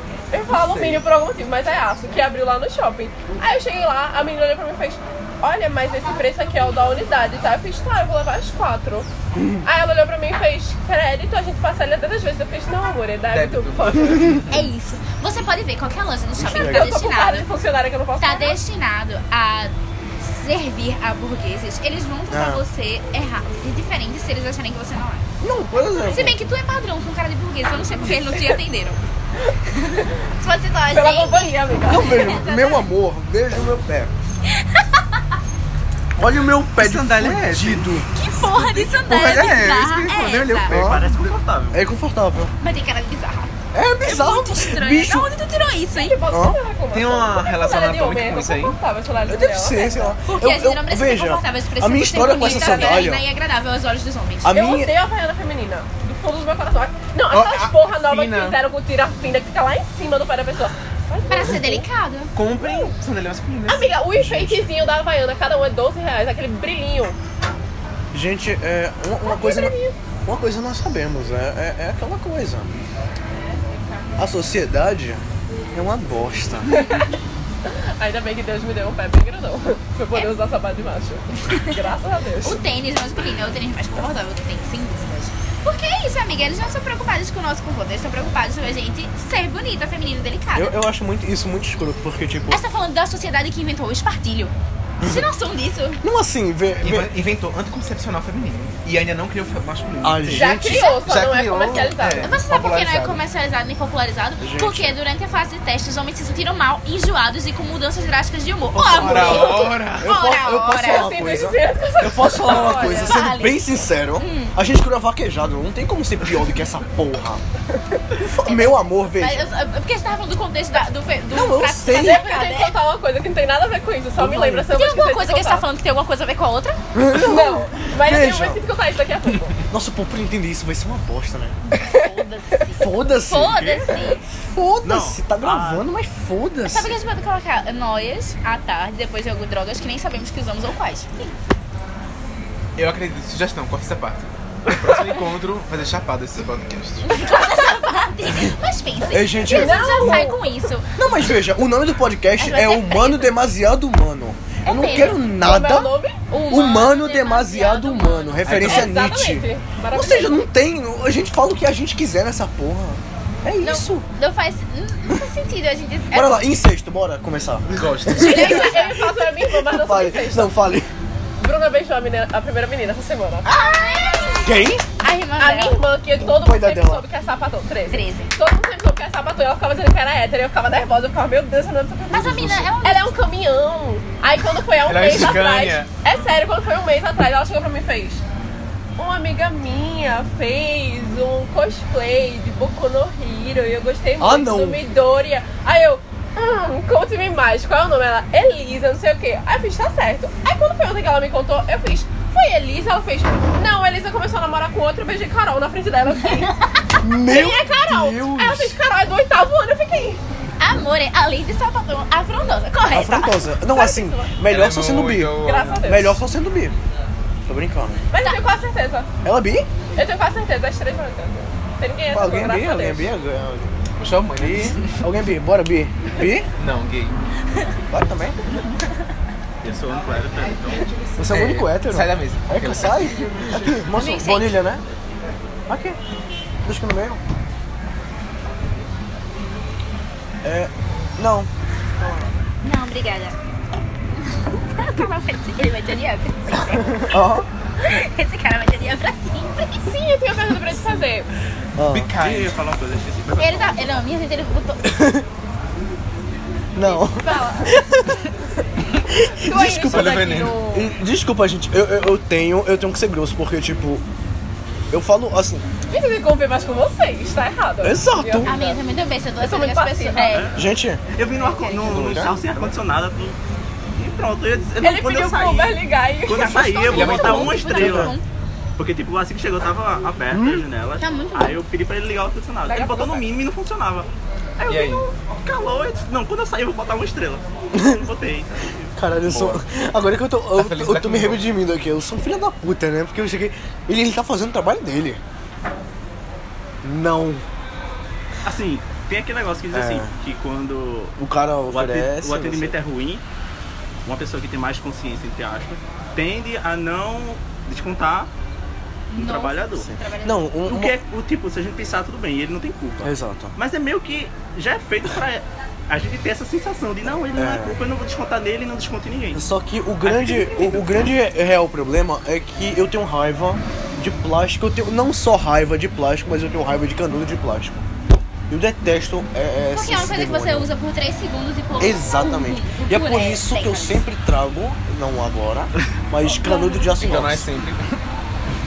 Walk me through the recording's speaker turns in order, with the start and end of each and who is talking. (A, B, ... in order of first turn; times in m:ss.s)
0:00.3-0:09.1 A
0:00.5-0:01.0 B
0:09.3-0:09.6 C
0:09.6-0:14.4 A
0:13.3-0:14.7 B
0:14.5-0:17.5 D
0:16.4-0:17.0 C
0:16.5-0:18.6 A
0:18.2-0:25.2 D
0:22.3-0:22.6 C
0:25.4-0:26.4 C
0:26.0-0:29.0 D
0:29.5-0:30.1 A
0:29.7-0:32.9 D
0:30.9-0:32.3 A
0:31.9-0:34.1 C
0:34.4-0:35.2 D
0:36.2-0:38.1 C
0:36.8-0:41.0 B
0:38.1-0:40.7 D
0:40.6-0:41.1 C
0:40.7-0:41.9 E
0:41.7-0:42.5 C
0:42.6-0:46.2 D
0:43.7-0:45.3 C
0:45.9-0:50.2 A
0:46.3-0:46.6 C
0:46.9-0:48.8 B
0:49.3-0:53.2 C
0:50.2-0:54.6 D
0:52.2-0:53.1 A
0:54.4-0:54.9 C
0:54.5-1:01.9 A
0:57.3-0:58.6 B
1:01.3-1:02.3 D
1:02.3-1:04.0 B
1:02.5-1:02.9 A
1:03.7-1:07.2 A
1:04.2-1:04.6 C
1:08.1-1:09.7 C
1:09.2-1:10.0 A
1:10.2-1:12.8 C
1:13.5-1:14.2 D
1:14.2-1:16.8 C
1:16.7-1:17.0 A
1:17.6-1:22.6 A
1:22.4-1:30.7 D
1:30.5-1:32.6 C
1:32.5-1:36.0 D
1:36.0-1:37.1 C
1:36.8-1:43.2 B
1:40.0-1:40.8 C
1:40.3-1:42.3 A
1:40.6-1:41.1 D
1:42.2-1:51.1 D
1:44.4-1:45.0 C
1:48.7-1:57.4 C
1:48.8-1:50.2 B
1:50.8-1:53.2 A
1:52.4-1:53.6 D
1:54.2-1:54.6 D
1:58.2-1:59.4 C
1:58.4-2:02.8 D
2:01.3-2:02.2 C
2:01.9-2:05.7 A
2:04.2-2:04.7 C
2:04.6-2:06.8 D
2:06.9-2:08.6 C
2:07.1-2:09.6 A
2:09.7-2:11.6 C
2:11.7-2:14.2 D
2:11.8-2:12.1 A
2:12.8-2:17.0 C
2:14.8-2:15.8 E
2:16.7-2:21.3 D
2:22.8-2:27.0 B
2:27.0-2:30.9 D
2:29.1-2:30.3 C
2:29.5-2:30.5 A
2:30.9-2:35.9 C
2:32.4-2:33.3 D
2:34.6-2:35.2 D
2:35.2-2:36.2 A
2:36.3-2:38.6 D
2:36.5-2:44.1 C
2:38.4-2:38.9 B
2:38.6-2:40.4 A
2:43.6-2:46.4 D
2:46.1-2:50.9 C
2:47.7-2:48.7 B
2:48.2-2:50.5 A
2:48.2-2:49.0 D
2:51.4-2:53.6 A
2:53.4-2:55.9 D
2:54.4-2:54.8 C
2:55.4-3:08.2 A
2:56.2-2:57.0 C
2:57.9-2:58.3 D
3:02.1-3:03.1 D
3:02.1-3:02.7 C
3:04.8-3:05.9 B
3:09.0-3:26.5 A
3:14.2-3:14.8 C
3:26.4-3:26.9 D
3:27.0-3:28.8 C
3:27.2-3:30.2 A
3:30.6-3:33.4 D
3:32.9-3:36.7 C
3:33.6-3:34.3 A
3:34.4-3:35.9 B
3:35.4-3:36.2 A
3:37.4-3:38.0 C
3:38.1-3:39.1 A
3:38.2-3:38.4 D
3:39.2-3:39.7 C
3:39.9-3:43.1 A
3:42.1-3:43.7 C
3:44.0-3:45.0 B
3:44.4-3:46.5 C
3:46.6-3:47.2 B
3:47.9-3:48.4 C
3:49.6-3:50.9 E
3:50.9-3:53.7 B
3:51.2-3:54.8 C
3:53.9-3:54.6 D
3:55.7-3:56.0 C
3:56.6-3:57.2 C
4:00.4-4:01.5 C
4:02.6-4:03.4 D
4:04.3-4:07.1 D
4:06.9-4:07.5 C
4:07.8-4:09.9 D
4:09.8-4:11.3 A
4:11.8-4:12.1 C
4:11.9-4:12.6 B
4:12.2-4:13.8 E
4:13.3-4:14.9 D
4:14.8-4:15.2 C
4:16.7-4:18.3 C
4:16.8-4:17.7 A
4:19.0-4:24.0 C
4:19.4-4:20.9 A
4:19.8-4:20.6 B
4:24.9-4:25.6 C
4:25.9-4:28.8 A
4:27.8-4:28.5 C
4:28.4-4:30.6 D
4:29.4-4:30.4 A
4:30.2-4:33.4 E
4:30.5-4:31.0 C
4:31.3-4:32.2 D
4:31.8-4:32.4 C
4:34.0-4:38.2 E
4:34.8-4:36.8 A
4:36.5-4:38.2 D
4:36.8-4:37.8 B
4:37.6-4:38.1 C
4:38.8-4:44.1 E
4:40.3-4:40.6 C
4:41.0-4:41.6 D
4:42.7-4:43.2 A
4:44.6-4:45.1 A
4:44.7-4:45.1 B
4:45.4-4:48.9 E
4:47.7-4:48.0 C
4:49.0-4:55.2 C
4:49.3-4:49.6 B
4:50.5-4:51.5 B
4:56.8-4:57.4 C
4:58.4-5:01.2 E
4:59.7-5:00.1 C
5:01.2-5:02.8 C
5:01.7-5:03.2 E
5:04.0-5:08.3 E
5:09.1-5:10.5 D
5:09.2-5:09.9 E
5:10.2-5:11.0 C
5:10.6-5:19.4 E
5:13.0-5:13.5 C
5:17.3-5:17.8 C
5:19.3-5:27.8 C
5:20.0-5:20.9 E
5:28.5-5:30.7 C
5:29.7-5:34.0 D
5:31.8-5:37.5 C
5:36.2-5:36.9 D
5:36.9-5:38.0 B